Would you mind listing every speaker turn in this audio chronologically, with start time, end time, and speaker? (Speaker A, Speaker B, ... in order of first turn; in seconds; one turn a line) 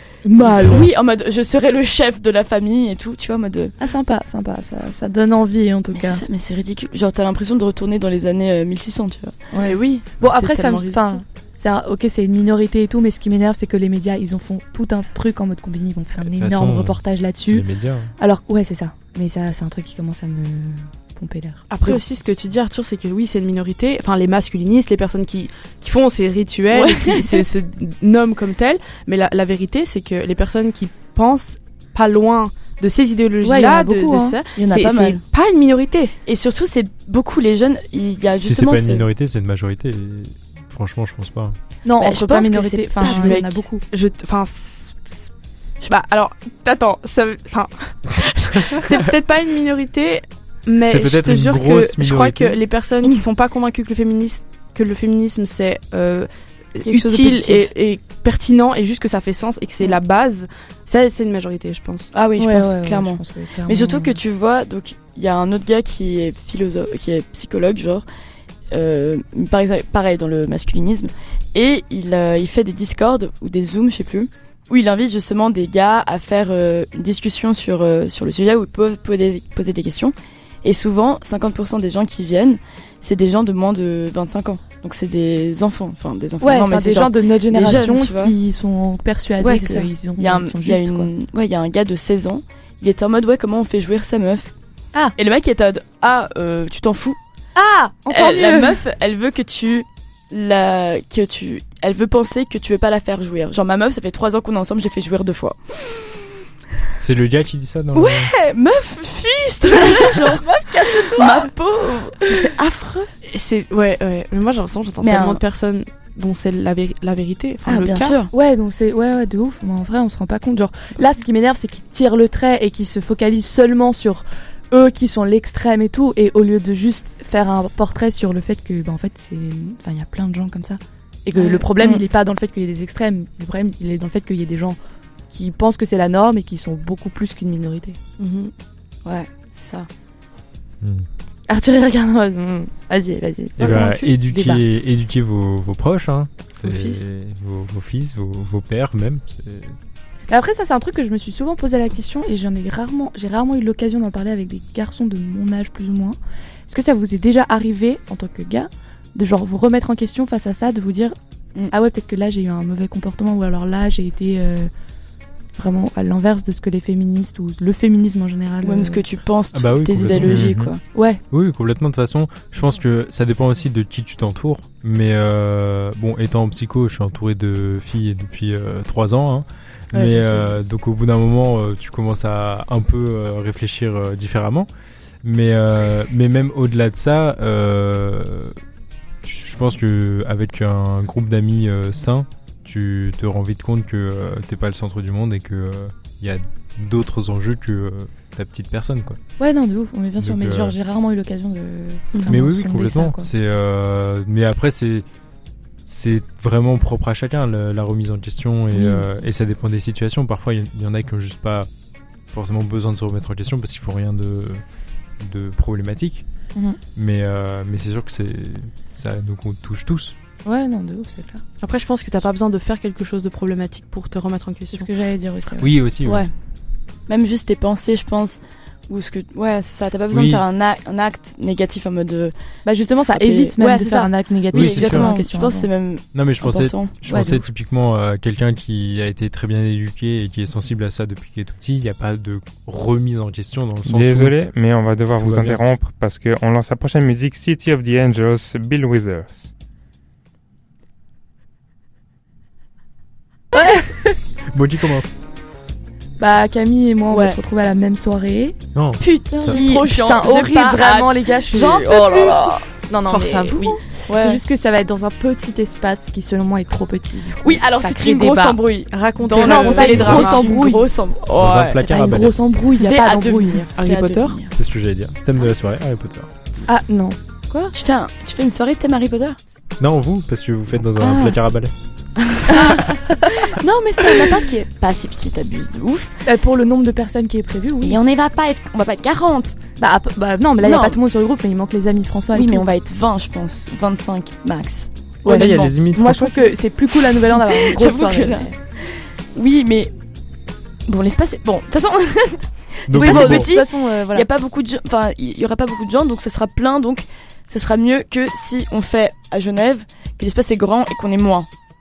Speaker A: 0.2-0.9
Speaker B: 0.4-3.7
Speaker A: 3.8-6.2
Speaker B: 6.0-9.4
Speaker A: 9.5-22.0
Speaker C: 9.6-11.1
Speaker D: 16.2-18.1
Speaker C: 21.7-36.1
Speaker B: 26.7-27.4
Speaker A: 33.4-34.4
Speaker B: 34.6-35.2
Speaker B: 36.3-39.1
Speaker D: 38.4-41.6
Speaker A: 41.9-43.8
Speaker B: 42.0-43.5
Speaker C: 43.0-45.3
Speaker C: 45.8-62.1
Speaker D: 50.9-52.6
Speaker B: 56.8-57.7
Speaker B: 62.1-68.1
Speaker A: 62.4-64.2
Speaker B: 68.7-88.3
Speaker A: 86.4-91.1
Speaker B: 89.4-94.5
Speaker B: 95.2-97.2
Speaker A: 97.6-98.8
Speaker B: 98.1-106.2
Speaker D: 107.0-108.3
Speaker B: 107.9-113.1
Speaker A: 110.0-111.5
Speaker C: 113.2-118.2
Speaker B: 115.0-115.4
Speaker B: 117.7-118.3
Speaker A: 118.3-134.8
Speaker B: 131.4-132.0
Speaker A: 135.3-138.0
Speaker C: 138.2-138.5
Speaker B: 139.1-139.9
Speaker D: 140.8-141.1
Speaker A: 141.5-144.6
Speaker D: 143.6-149.8
Speaker C: 143.6-144.0
Speaker C: 146.6-147.0
Speaker A: 150.3-156.2
Speaker A: 156.7-161.2
Speaker A: 161.7-164.7
Speaker A: 165.6-169.0
Speaker B: 168.6-170.8
Speaker D: 169.5-170.7
Speaker E: 170.2-170.7
Speaker A: 170.9-171.2
Speaker D: 171.3-184.7
Speaker A: 179.9-180.6
Speaker D: 185.2-188.6
Speaker D: 189.2-199.2
Speaker A: 199.4-203.3
Speaker D: 200.2-200.8
Speaker D: 202.3-205.1
Speaker D: 205.9-211.7
Speaker A: 208.7-209.0
Speaker D: 212.3-216.2
Speaker D: 216.9-220.2
Speaker A: 220.4-221.4
Speaker C: 221.6-224.9
Speaker A: 224.7-225.7
Speaker D: 225.6-226.2
Speaker B: 227.1-232.3
Speaker D: 230.1-230.4
Speaker A: 232.7-235.7
Speaker B: 233.2-237.0
Speaker D: 234.5-235.1
Speaker D: 236.1-244.4
Speaker A: 237.1-237.4
Speaker E: 243.9-249.5
Speaker D: 245.2-245.6
Speaker A: 253.5-254.2
Speaker D: 254.5-255.1
Speaker A: 256.2-258.6
Speaker B: 257.1-257.4
Speaker D: 258.8-259.6
Speaker B: 259.0-262.6
Speaker A: 259.3-270.9
Speaker C: 263.1-263.8
Speaker B: 264.1-264.4
Speaker B: 267.4-274.6
Speaker C: 268.9-270.5
Speaker D: 271.4-272.4
Speaker A: 271.8-273.7
Speaker C: 273.8-274.4
Speaker D: 274.5-276.3
Speaker A: 276.7-277.7
Speaker B: 277.7-279.4
Speaker D: 279.8-281.7
Speaker B: 281.0-281.4
Speaker B: 282.2-286.2
Speaker A: 282.5-282.9
Speaker A: 286.2-288.0
Speaker B: 287.8-289.6
Speaker A: 289.8-292.6
Speaker B: 290.6-291.0
Speaker B: 292.3-295.8
Speaker D: 295.3-296.4
Speaker A: 295.3-298.6
Speaker B: 297.1-299.9
Speaker B: 300.9-311.5
Speaker D: 302.9-303.5
Speaker A: 302.9-304.3